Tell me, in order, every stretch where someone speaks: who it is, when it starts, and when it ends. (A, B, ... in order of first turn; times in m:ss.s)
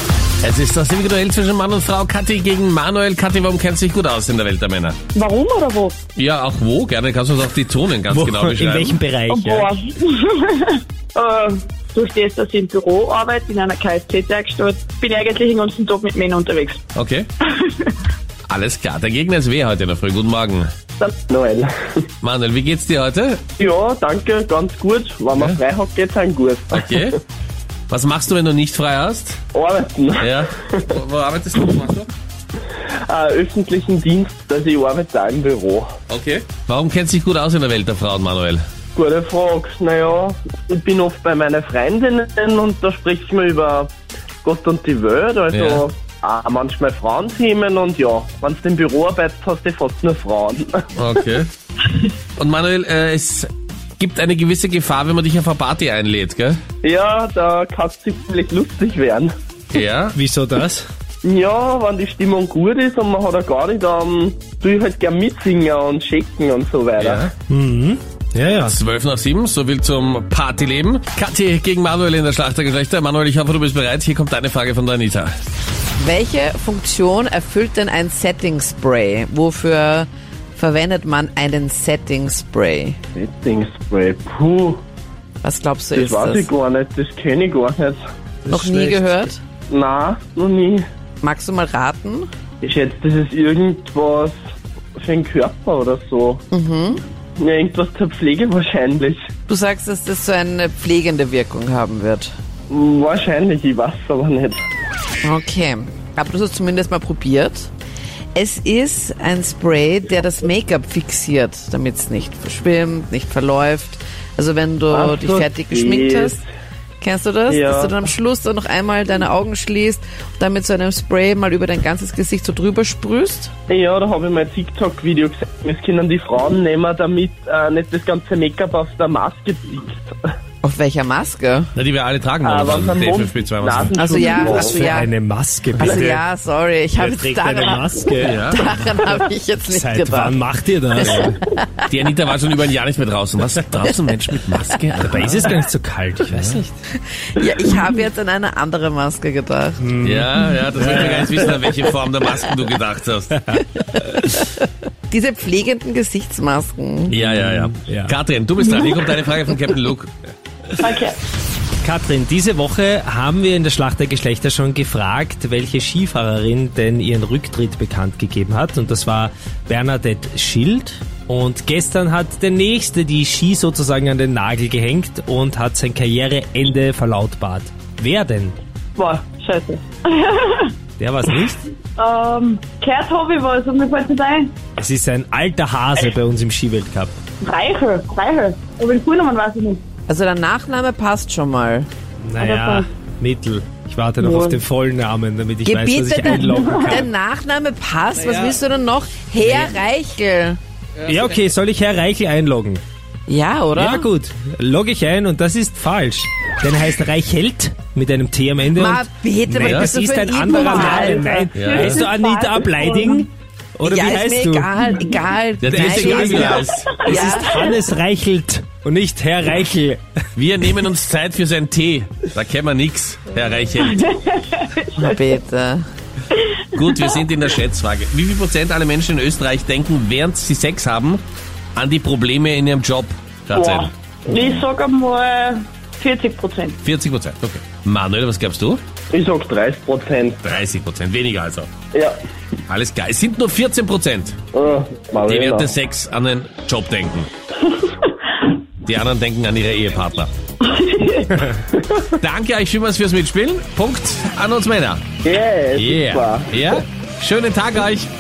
0:00.4-0:05.0 A
0:05.2-0:06.0 B
0:06.2-0:09.0 A
0:08.1-0:09.7 C
0:09.3-0:16.8 B
0:17.0-0:17.3 A
0:17.6-0:17.9 B
0:18.5-0:20.7 A
0:21.0-0:22.1 D
0:22.2-0:23.4 A
0:23.6-0:27.1 D
0:25.3-0:25.6 A
0:26.7-0:27.2 A
0:27.9-0:29.4 A
0:29.5-0:31.0 D
0:30.2-0:32.1 A
0:32.8-0:35.9 D
0:36.1-0:38.6 A
0:39.0-0:43.9 D
0:44.4-0:50.9 D
0:45.5-0:45.8 A
0:51.0-0:51.5 A
0:52.4-0:56.6 A
0:56.8-0:59.3 D
0:59.7-1:00.2 A
1:00.1-1:00.8 C
1:01.2-1:07.3 D
1:07.0-1:07.3 A
1:07.5-1:08.8 C
1:08.6-1:15.3 A
1:16.0-1:23.0 E
1:23.2-1:24.8 D
1:25.4-1:26.5 E
1:25.9-1:28.0 D
1:28.4-1:29.3 C
1:28.5-1:29.4 E
1:29.7-1:30.8 D
1:31.2-1:32.3 E
1:32.6-1:34.4 D
1:35.0-1:36.4 D
1:36.5-1:37.0 E
1:37.4-1:39.2 D
1:39.5-1:42.3 E
1:42.7-1:44.6 D
1:45.2-1:47.7 E
1:48.4-1:56.4 E
1:54.9-1:56.4 D
1:57.0-2:03.5 E
1:57.5-1:58.0 D
2:03.7-2:10.2 D
2:10.6-2:11.7 E
2:11.8-2:14.0 A
2:12.4-2:15.0 D
2:14.0-2:15.1 E
2:14.6-2:16.2 C
2:15.7-2:20.4 E
2:17.0-2:18.5 C
2:18.2-2:18.6 A
2:19.7-2:21.4 C
2:21.0-2:21.9 E
2:21.9-2:25.5 A
2:25.0-2:26.8 C
2:26.3-2:26.6 A
2:27.3-2:29.8 E
2:29.8-2:31.5 C
2:30.0-2:33.4 A
2:33.3-2:33.6 C
2:33.8-2:37.1 E
2:37.1-2:38.2 C
2:37.1-2:40.2 A
2:38.6-2:39.0 B
2:40.8-2:41.2 B
2:41.8-2:58.6 C
2:59.0-3:00.7 B
3:01.0-3:01.6 C
3:02.0-3:04.5 B
3:04.8-3:07.2 C
3:07.4-3:09.8 B
3:10.1-3:11.9 E
3:12.2-3:17.1 C
3:12.4-3:12.9 B
3:14.3-3:14.6 B
3:15.6-3:20.6 E
3:21.0-3:22.8 C
3:23.3-3:24.1 E
3:23.8-3:34.7 C
3:28.8-3:31.5 E
3:29.6-3:29.9 A
3:30.6-3:33.3 B
3:31.5-3:32.0 A
3:33.8-3:37.7 E
3:35.6-3:37.0 A
3:35.6-3:40.0 C
3:40.4-3:44.1 A
3:44.0-3:45.2 B
3:45.0-3:45.8 E
3:46.7-3:51.2 A
3:51.8-3:53.9 A
3:53.5-3:56.8 B
3:56.8-3:58.8 A
3:59.1-4:00.5 D
4:00.4-4:01.7 A
4:02.7-4:04.4 A
4:04.5-4:05.7 D
4:05.2-4:07.3 A
4:08.8-4:10.3 A
4:10.6-4:11.5 B
4:11.8-4:12.0 D
4:12.2-4:15.0 A
4:15.2-4:16.5 D
4:15.8-4:18.1 A